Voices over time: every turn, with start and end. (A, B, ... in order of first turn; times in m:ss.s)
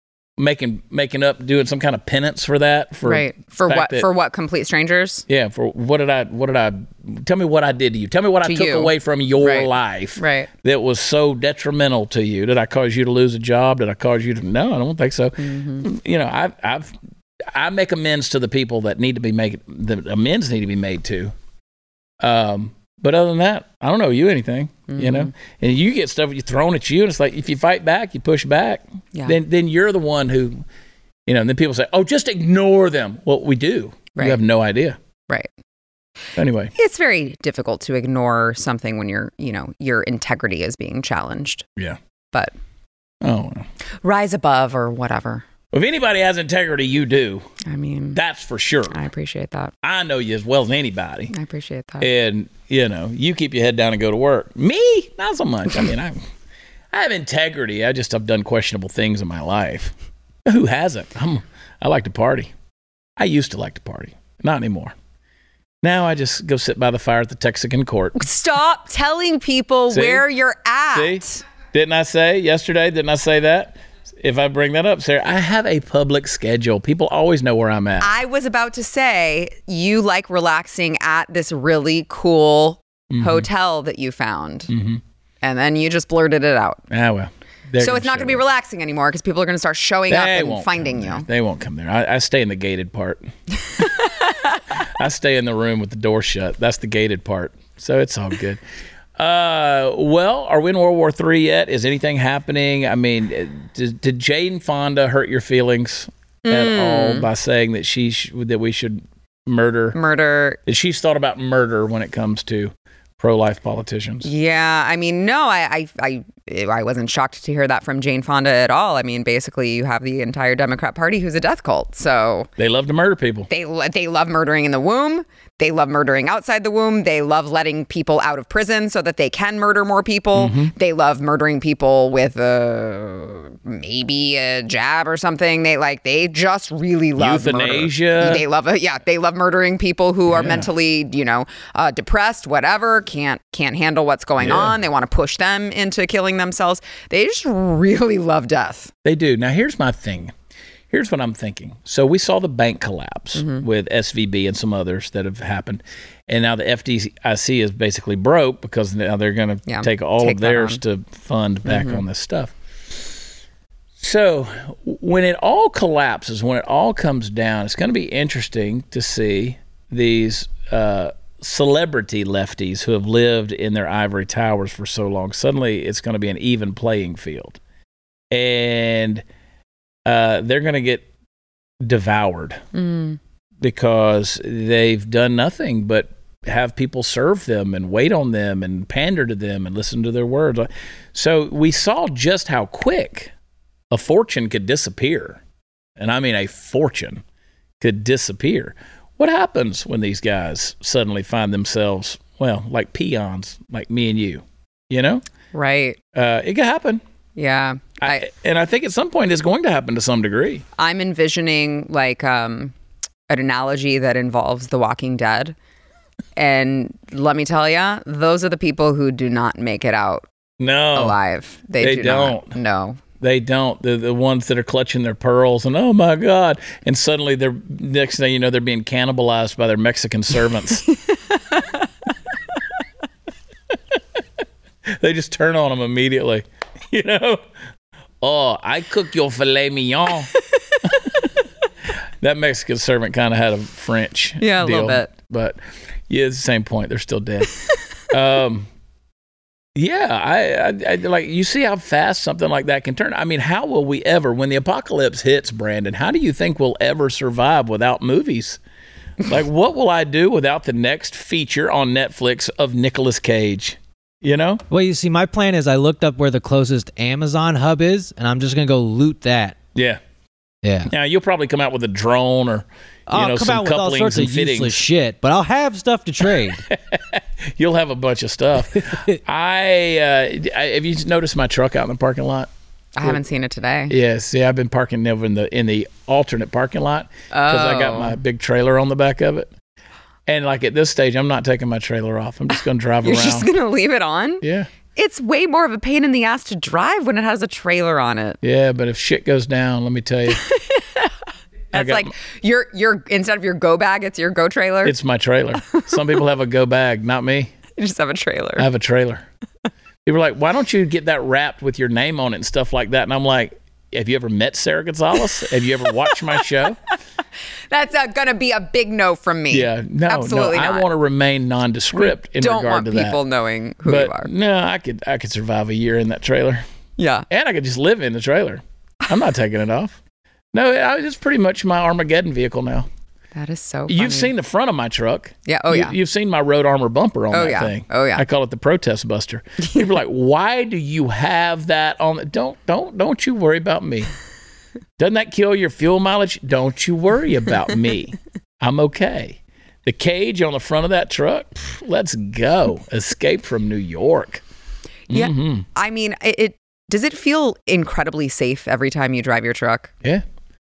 0:00.4-0:04.1 A
0:03.0-0:05.3 B
0:05.3-0:16.9 A
0:08.4-0:10.5 B
0:15.4-0:15.9 B
0:17.5-0:21.3 A
0:22.2-0:30.6 A
0:24.9-0:25.3 B
0:31.3-0:35.0 A
0:36.4-0:36.7 A
0:36.8-0:41.6 B
0:43.2-0:43.7 A
0:44.0-0:45.4 B
0:45.7-0:47.5 A
0:47.6-0:48.2 B
0:48.2-0:49.0 A
0:48.9-0:49.7 B
0:49.8-0:51.3 A
0:51.3-0:52.1 B
0:52.0-0:56.2 A
0:56.9-0:59.9 A
1:00.5-1:02.5 A
1:03.2-1:04.9 A
1:05.8-1:08.2 A
1:08.2-1:11.4 B
1:09.9-1:10.2 A
1:10.9-1:18.1 A
1:18.0-1:24.7 B
1:23.1-1:23.5 A
1:24.7-1:25.0 A
1:25.4-1:26.8 B
1:26.9-1:28.4 A
1:27.8-1:31.2 B
1:30.1-1:33.3 A
1:33.8-1:34.6 B
1:34.8-1:38.6 A
1:39.2-1:50.0 A
1:46.5-1:47.3 B
1:49.9-1:50.6 B
1:50.7-1:54.3 A
1:54.2-2:02.5 B
2:02.6-2:03.5 A
2:03.5-2:28.9 B
2:10.4-2:10.7 A
2:17.2-2:18.4 A
2:20.3-2:20.7 A
2:24.4-2:24.8 A
2:29.0-2:30.3 A
2:30.9-2:42.6 A
2:33.4-2:33.6 B
2:39.7-2:40.8 B
2:41.6-2:42.0 B
2:44.0-2:57.6 A
2:58.3-2:59.2 A
3:00.0-3:01.1 A
3:01.8-3:02.6 A
3:02.7-3:03.2 B
3:03.6-3:13.3 A
3:13.9-3:15.4 A
3:16.0-3:17.2 A
3:17.8-3:25.2 A
3:25.5-3:26.0 B
3:26.1-3:27.0 A
3:27.4-3:28.3 B
3:28.0-3:30.6 A
3:30.8-3:32.7 B
3:33.3-3:35.6 B
3:36.4-3:40.3 B
3:40.6-3:41.2 A
3:41.0-3:43.0 B
3:41.8-3:42.6 A
3:43.2-3:50.9 A
3:51.1-3:51.8 B
3:54.9-3:57.4 A
3:58.2-4:00.3 A
4:00.8-4:01.1 A
4:01.9-4:08.7 A
4:04.4-4:05.1 B
4:09.8-4:18.6 A
4:19.2-4:24.6 A
4:24.7-4:29.6 C
4:29.8-4:30.0 A
4:30.6-4:30.9 C
4:30.8-4:34.8 A
4:33.1-4:36.6 C
4:36.4-4:42.5 A
4:43.0-4:43.9 B
4:43.9-4:49.5 A
4:47.3-4:48.2 B
4:50.3-4:53.5 A
4:52.6-4:54.4 B
4:54.4-4:54.7 A
4:54.9-4:58.4 B
4:58.4-5:00.4 A
5:00.3-5:01.1 B
5:01.7-5:05.0 B
5:01.7-5:02.1 A
5:04.8-5:07.5 A
5:05.7-5:06.0 B
5:07.8-5:08.7 B
5:08.6-5:09.2 A
5:10.0-5:16.8 A
5:17.7-5:20.8 B
5:19.5-5:23.2 A
5:21.9-5:24.3 B
5:23.9-5:26.6 A
5:27.0-5:27.3 B
5:27.3-5:30.0 A
5:30.5-5:32.9 A
5:33.3-5:34.3 B
5:33.9-5:44.1 A
5:35.5-5:36.0 B
5:37.3-5:38.2 B
5:39.6-5:39.9 B
5:45.0-5:54.4 A
5:55.1-5:55.7 A
5:55.1-5:59.9 B